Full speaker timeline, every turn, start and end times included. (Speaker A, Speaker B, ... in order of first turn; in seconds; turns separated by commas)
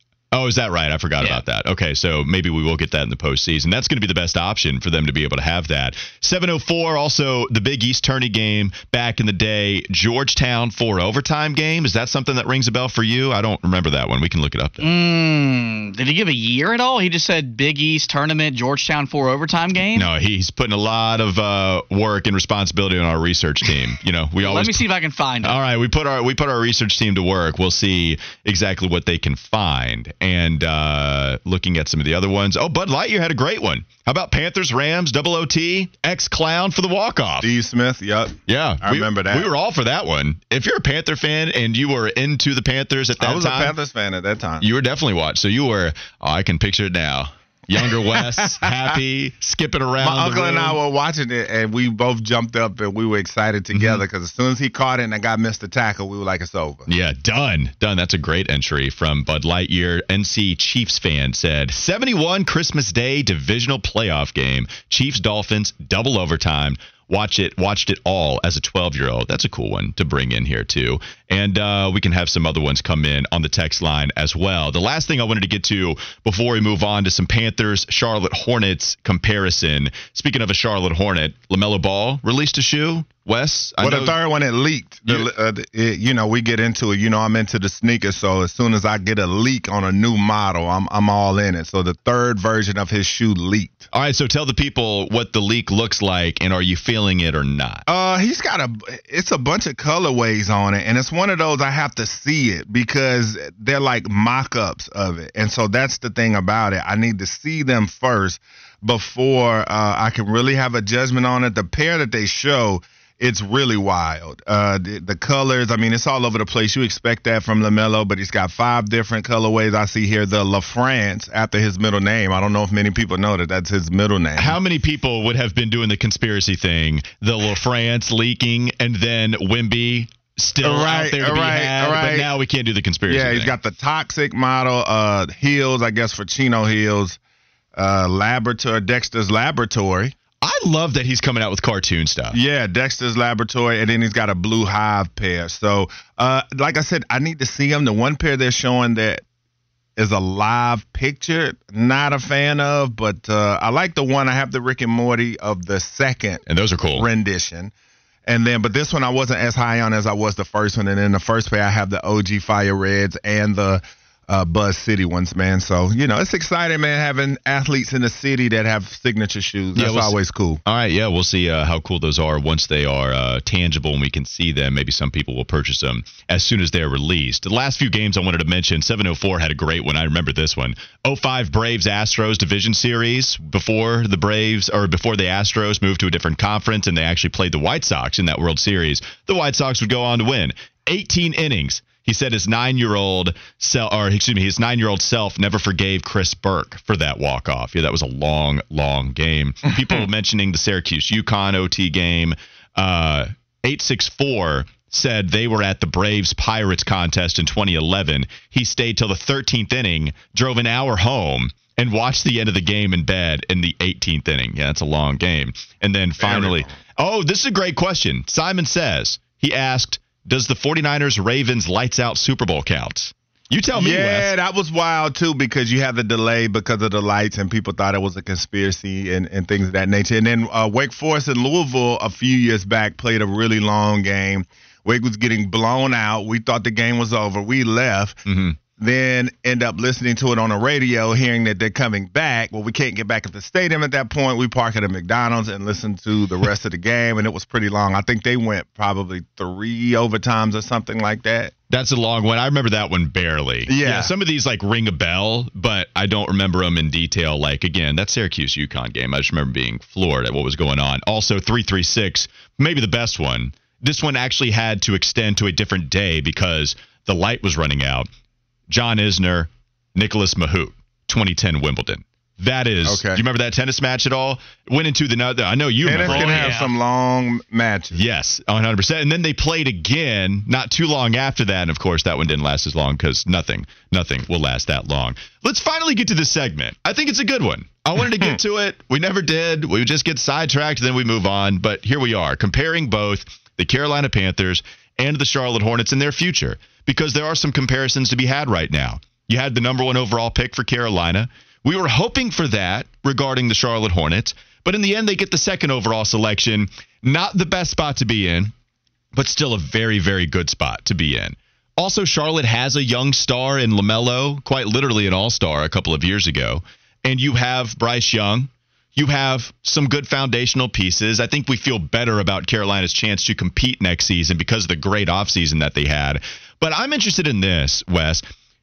Speaker A: 0.3-14.9, Speaker B: 14.8-20.1, Speaker A: 19.9-24.9, Speaker B: 24.4-25.6, Speaker A: 25.4-37.5, Speaker C: 37.4-39.5, Speaker A: 38.5-43.7, Speaker C: 43.2-44.6, Speaker A: 44.6-50.8, Speaker C: 47.8-48.8, Speaker C: 50.0-56.9, Speaker A: 53.7-54.0, Speaker A: 56.9-84.2, Speaker C: 83.8-93.9, Speaker A: 93.9-97.8, Speaker C: 97.9-124.6, Speaker A: 124.3-133.5, Speaker C: 130.6-132.3, Speaker C: 133.1-137.2, Speaker C: 137.8-140.1, Speaker A: 140.4-142.4, Speaker C: 142.3-149.2, Speaker C: 150.0-156.4, Speaker A: 156.5-157.1, Speaker C: 156.9-157.7, Speaker C: 158.2-170.6, Speaker A: 169.7-224.3, Speaker C: 216.2-216.7, Speaker C: 223.8-238.2, Speaker A: 238.3-238.6, Speaker C: 238.8-251.5, Speaker A: 251.7-268.1, Speaker C: 253.7-254.1, Speaker A: 268.7-276.7, Speaker C: 272.9-273.2, Speaker C: 275.8-278.0, Speaker B: 276.0-276.7, Speaker A: 277.9-308.5, Speaker A: 309.1-328.2